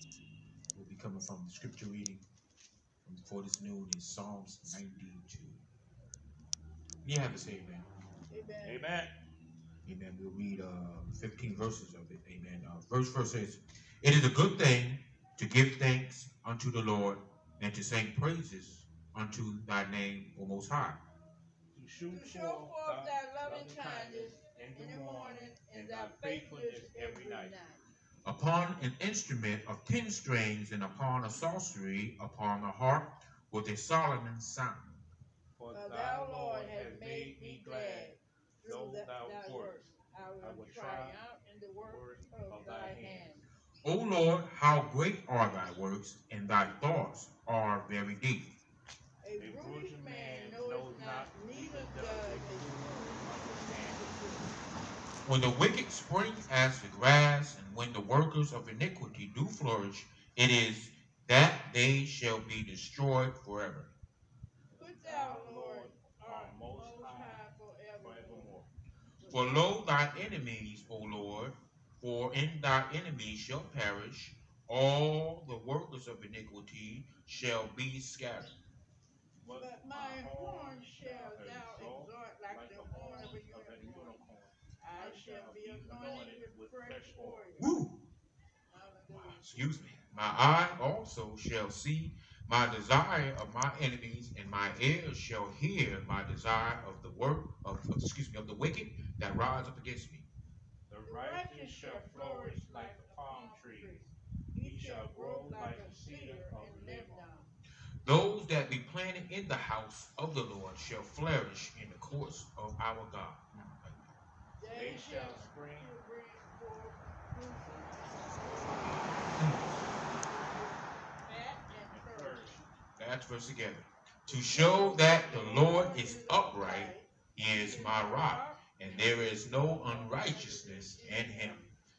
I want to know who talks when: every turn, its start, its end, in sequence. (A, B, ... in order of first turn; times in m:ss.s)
0:00.7-0:02.2 A
0:03.0-0:05.6 A
0:07.0-0:07.9 A
0:08.3-0:08.9 B
0:08.6-0:09.1 C
0:09.8-0:21.0 A
0:21.7-0:27.6 C
0:22.1-0:27.8 B
0:28.2-0:35.0 A
0:35.6-0:38.1 C
0:35.7-0:43.4 B
0:38.6-0:39.8 C
0:40.4-0:41.2 C
0:41.8-0:43.4 C
0:43.8-0:48.5 A
0:49.2-0:54.5 B
0:49.4-0:54.4 C
0:55.2-1:03.9 A
1:04.7-1:07.4 C
1:04.8-1:08.5 B
1:08.0-1:08.7 C
1:09.2-1:09.8 B
1:09.3-1:18.6 A
1:19.4-1:27.4 C
1:19.5-1:24.2 B
1:24.8-1:27.7 B
1:27.6-1:28.0 A
1:28.7-1:29.6 B
1:29.1-1:40.2 A
1:40.9-1:44.1 C
1:41.0-1:47.5 B
1:44.6-1:47.2 C
1:48.0-1:54.1 A
1:54.6-2:02.6 B
1:54.7-1:55.9 C
2:01.9-2:02.7 C
2:03.0-2:11.6 A
2:04.4-2:11.7 B